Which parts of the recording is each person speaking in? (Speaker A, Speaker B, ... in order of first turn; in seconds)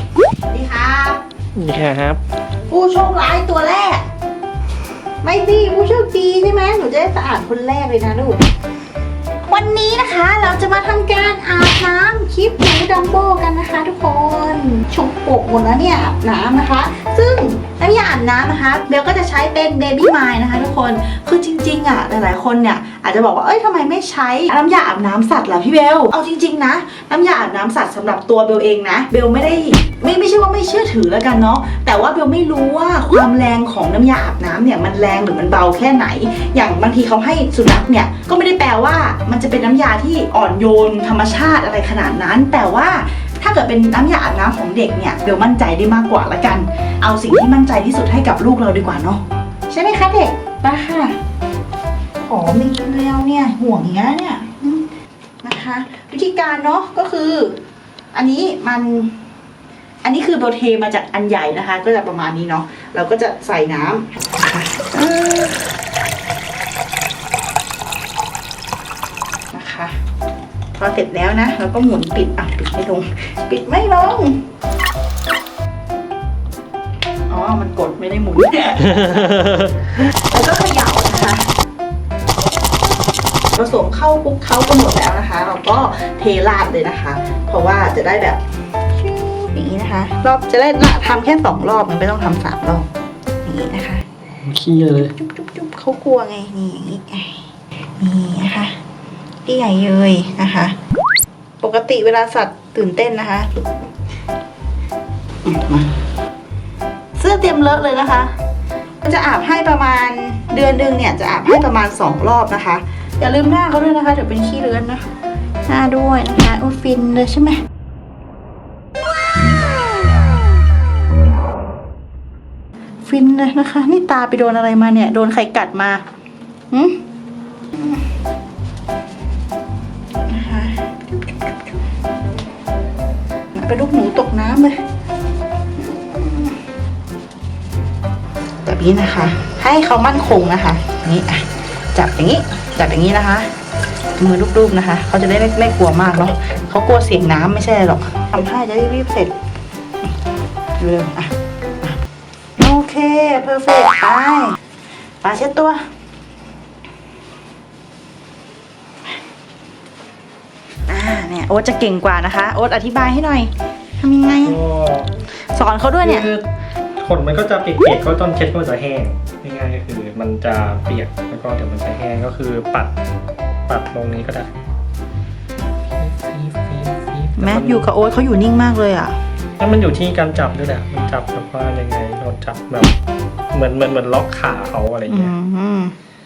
Speaker A: 0.5-1.2, 2.7-4.1, 5.2-8.4, 9.5-51.2, 52.2-54.9, 55.4-57.6, 58.1-59.2, 60.0-65.6, 69.5-70.0, 70.8-74.4, 77.3-81.5, 83.5-88.4, 88.9-92.9, 93.4-94.0, 95.2-97.4, 98.0-98.8, 99.5-100.8, 101.6-103.7, 105.5-105.9, 107.2-108.4, 109.0-115.1, 115.7-117.6, 123.0-126.0, 126.7-127.0, 127.7-128.0, 130.3-131.6, 133.6-134.8, 135.8-136.6, 138.7-143.5, 144.2-149.3, 150.8-152.0, 152.6-154.6, 155.2-155.8, 160.9-164.6, 165.5-166.3, 177.4-179.2, 185.1-185.9
Speaker B: 1.6-2.2, 94.4-95.1, 164.4-165.1, 166.0-166.5, 167.0-172.9, 173.7-174.5, 176.0-177.9, 179.6-182.9, 183.5-185.3